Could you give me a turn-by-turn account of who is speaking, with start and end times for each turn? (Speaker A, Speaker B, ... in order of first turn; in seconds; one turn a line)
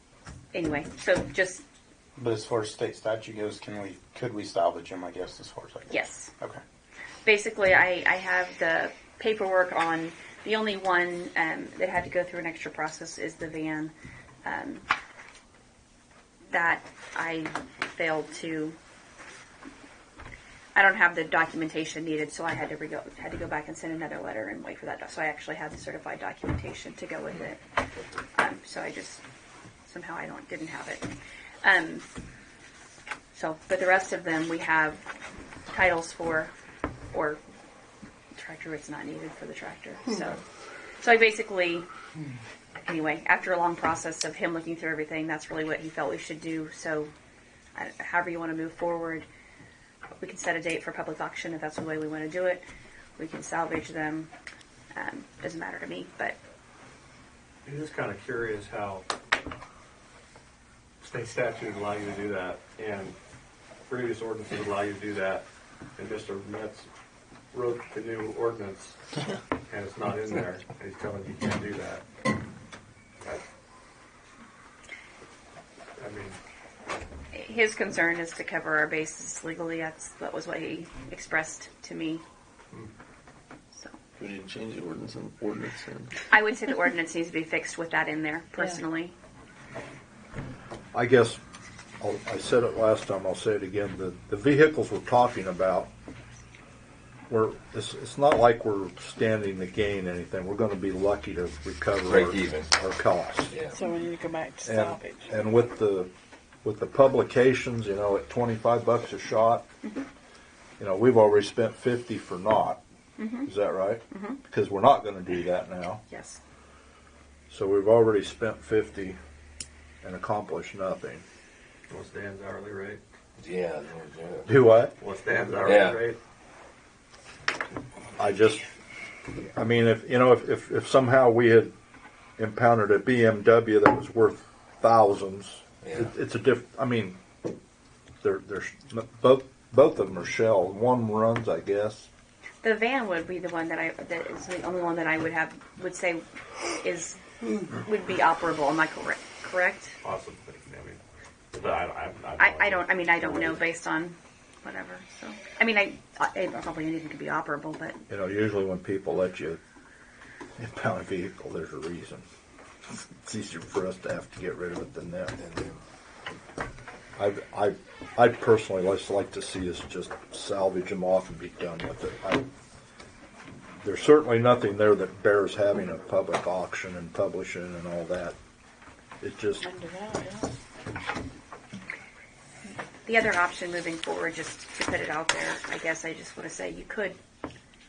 Speaker A: 0.5-1.6
Speaker B: 2.2-6.6
Speaker A: 5.9-6.3
Speaker A: 7.2-13.9
Speaker A: 14.4-14.9
Speaker A: 16.5-18.8
Speaker A: 20.7-27.6
Speaker A: 28.4-29.2
Speaker A: 29.8-31.1
Speaker A: 31.6-32.0
Speaker A: 33.3-35.0
Speaker A: 35.7-36.5
Speaker A: 37.1-37.4
Speaker A: 38.4-40.4
Speaker A: 41.0-41.9
Speaker A: 42.8-47.1
Speaker A: 47.8-49.2
Speaker A: 50.2-52.6
Speaker A: 53.2-54.3
Speaker A: 54.9-56.4
Speaker C: 57.6-59.0
Speaker C: 61.0-63.1
Speaker C: 63.9-65.4
Speaker C: 66.0-66.9
Speaker C: 67.5-68.9
Speaker C: 69.7-72.0
Speaker C: 76.0-76.4
Speaker A: 77.3-82.2
Speaker D: 84.2-86.1
Speaker A: 86.3-89.1
Speaker E: 90.9-91.4
Speaker E: 92.0-95.9
Speaker E: 97.3-103.6
Speaker F: 102.1-102.7
Speaker G: 103.7-105.3
Speaker E: 104.6-106.1
Speaker E: 106.6-109.7
Speaker E: 110.8-112.8
Speaker A: 113.2-113.5
Speaker E: 113.4-116.0
Speaker A: 114.1-114.4
Speaker A: 116.1-116.4
Speaker E: 117.5-119.2
Speaker E: 120.0-121.2
Speaker C: 121.9-123.0
Speaker F: 123.4-124.5
Speaker E: 124.5-124.9
Speaker C: 125.0-126.2
Speaker F: 125.6-126.0
Speaker E: 128.2-128.7
Speaker E: 129.5-131.7
Speaker E: 132.4-137.2
Speaker E: 138.2-142.1
Speaker A: 142.6-146.2
Speaker A: 146.8-149.9
Speaker C: 150.0-151.0
Speaker C: 151.5-153.6
Speaker A: 152.4-158.0
Speaker E: 158.1-159.6
Speaker E: 160.6-162.2
Speaker E: 162.9-165.4
Speaker F: 165.4-165.8
Speaker E: 167.2-172.5
Speaker E: 173.8-178.4
Speaker E: 179.2-179.7
Speaker G: 179.6-180.5
Speaker A: 183.0-187.2